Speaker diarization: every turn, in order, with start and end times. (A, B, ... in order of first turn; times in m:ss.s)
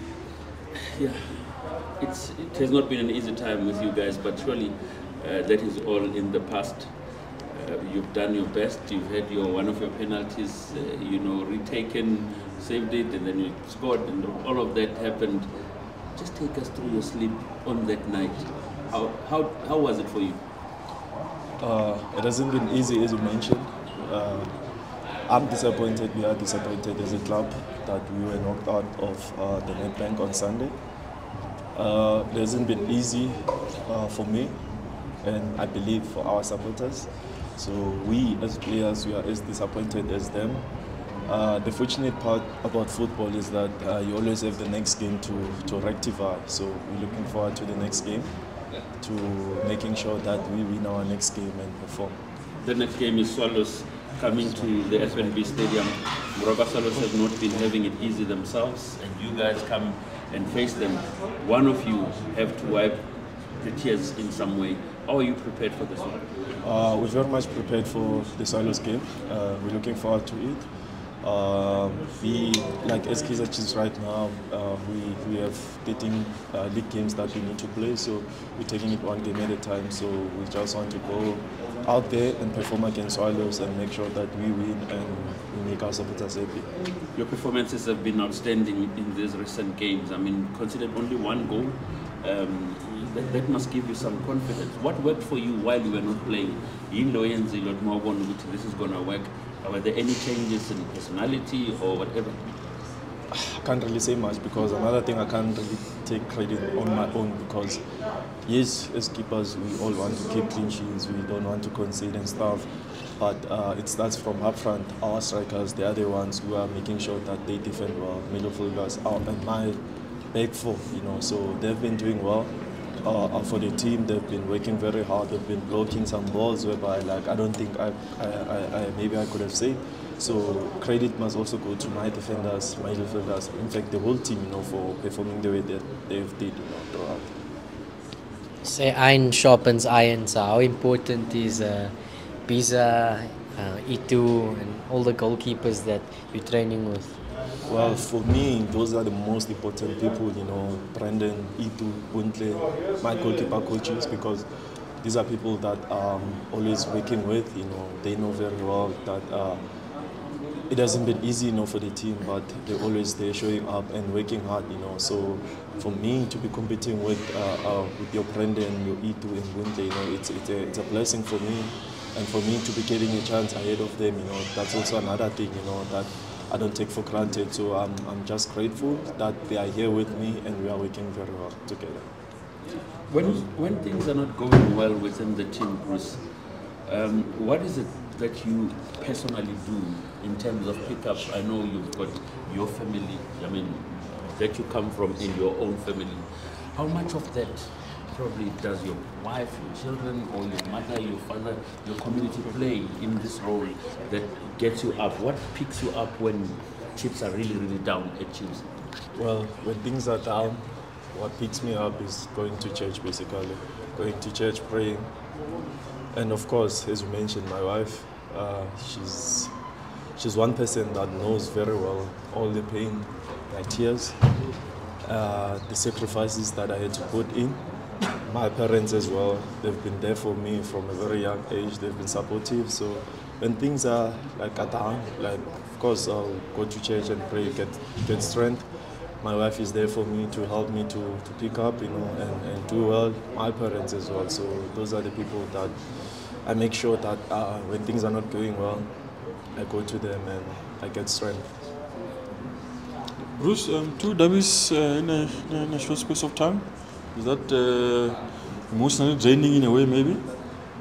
0:01.0-0:20.4 A
0:21.6-0:30.8 B
0:31.8-0:52.2 B
0:52.6-1:06.3 A
1:06.6-1:10.7 B
1:11.2-1:26.7 B
1:27.2-1:42.7 A
1:43.3-1:47.9 B
1:48.4-1:52.7 B
1:53.2-1:59.8 B
2:00.3-2:17.3 B
2:18.6-2:21.9 C
2:22.4-2:27.2 C
2:27.6-2:34.4 B
2:35.0-2:39.6 B
2:40.7-3:02.1 B
3:03.1-3:28.7 A
3:29.2-3:35.1 B
3:36.1-3:39.5 B
3:40.2-3:44.2 B
3:45.0-3:47.6 B
3:48.2-4:11.5 B
4:13.3-4:20.2 D